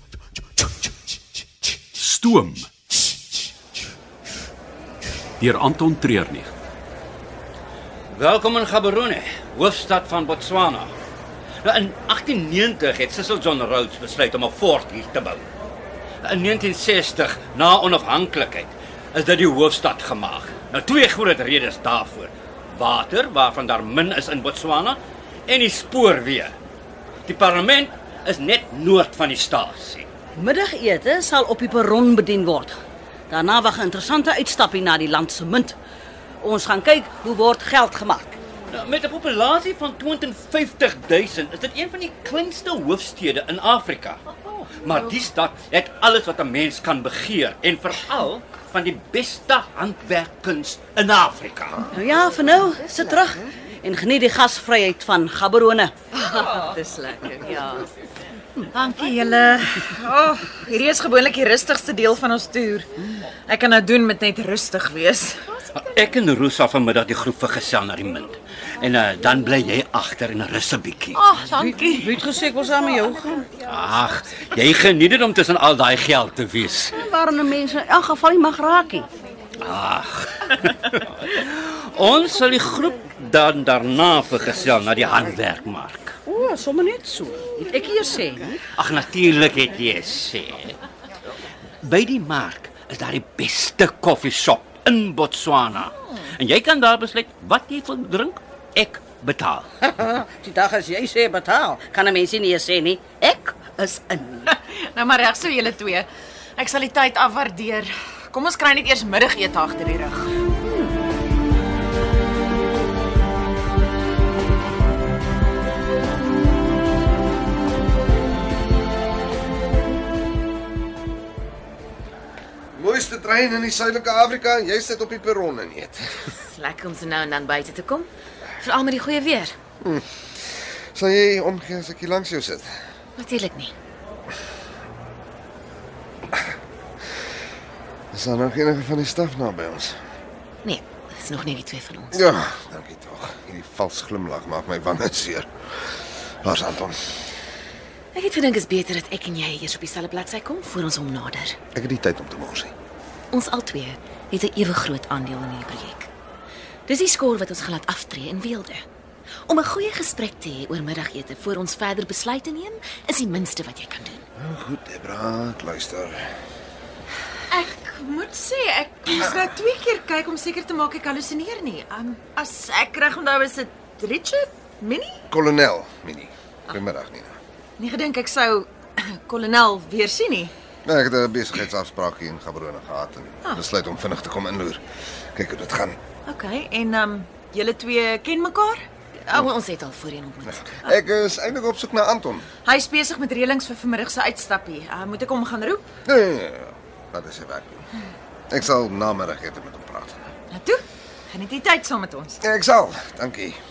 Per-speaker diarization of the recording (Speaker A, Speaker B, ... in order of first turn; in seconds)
Speaker A: 1.9-2.7, 5.4-6.5
Speaker B: 8.1-10.9, 11.6-15.5, 16.2-26.5, 27.2-30.1, 38.7-51.9, 65.7-71.2, 73.7-76.9, 79.6-86.2, 88.8-90.8, 91.8-99.7
Speaker C: 30.4-32.8, 33.3-35.8, 36.4-38.4, 51.9-55.9, 71.5-73.5, 77.0-79.1, 86.2-88.6, 99.8-104.5
Speaker D: 56.1-57.9, 58.7-62.9, 63.5-65.5, 71.1-72.2, 104.5-110.3, 167.5-175.2, 177.8-180.5, 186.2-188.8, 192.7-195.8, 200.5-202.4
Speaker E: 122.8-126.3, 129.8-130.1, 130.9-132.7, 138.1-140.0, 142.1-145.5, 146.4-146.9, 151.7-152.7, 164.4-166.3, 175.3-177.4, 180.8-184.8, 185.3-186.0, 190.7-192.4, 196.1-197.9, 198.5-200.3, 202.4-203.6
Speaker F: 126.4-128.1, 128.6-129.6, 133.2-133.7, 140.6-142.2, 148.1-151.6, 153.3-156.1, 156.9-158.8, 159.5-164.2, 189.2-190.7